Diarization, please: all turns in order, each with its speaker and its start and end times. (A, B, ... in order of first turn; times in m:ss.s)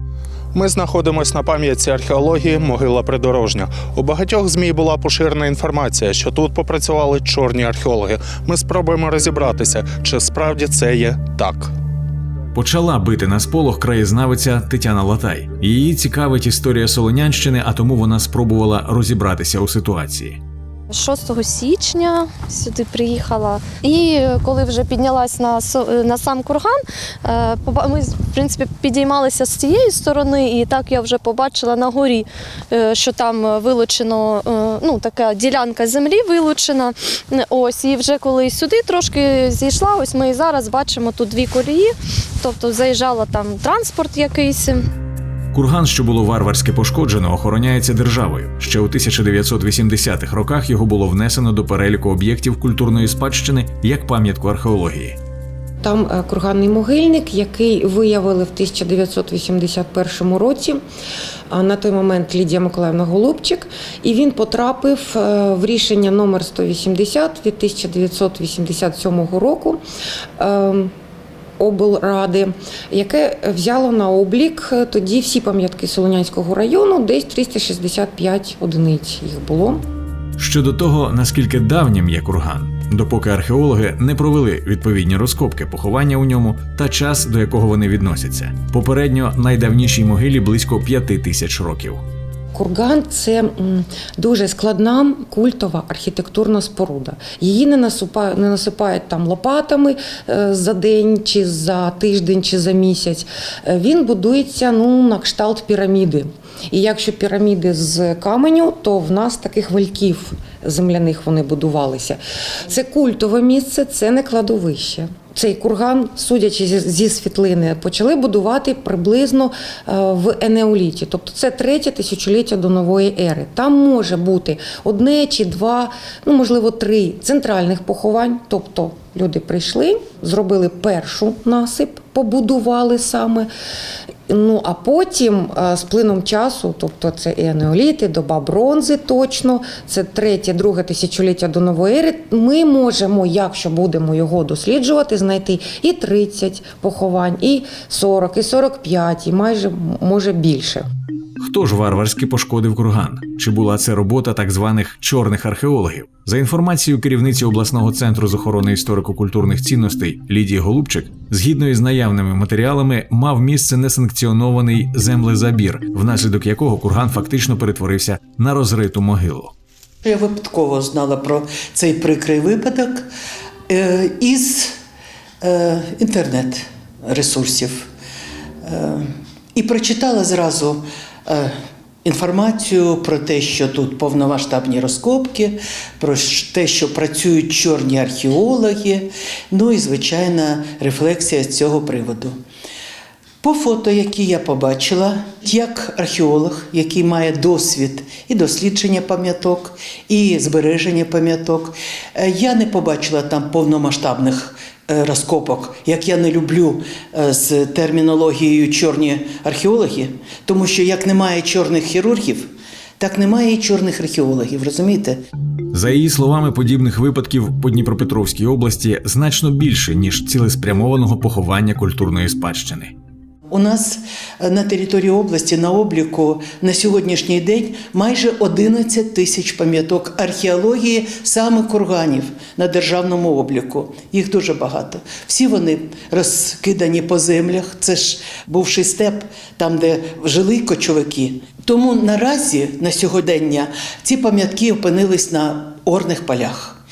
0:00.6-0:11.7 A
0:12.6-0:20.4 B
0:20.9-0:44.8 C
0:45.5-0:55.2 B
0:55.8-1:00.8 D
1:01.5-1:09.8 D
1:10.4-1:10.9 D
1:11.6-1:19.8 D
1:20.4-1:32.0 B
1:32.5-2:13.5 D
2:14.3-2:30.9 D
2:31.4-2:49.5 B
2:50.0-2:53.1 E
2:53.7-2:54.7 E
2:55.4-2:57.9 E
2:58.6-3:01.5 E
3:02.0-3:12.4 E
3:13.4-3:35.2 E
3:35.7-3:43.0 B
3:43.5-4:06.8 E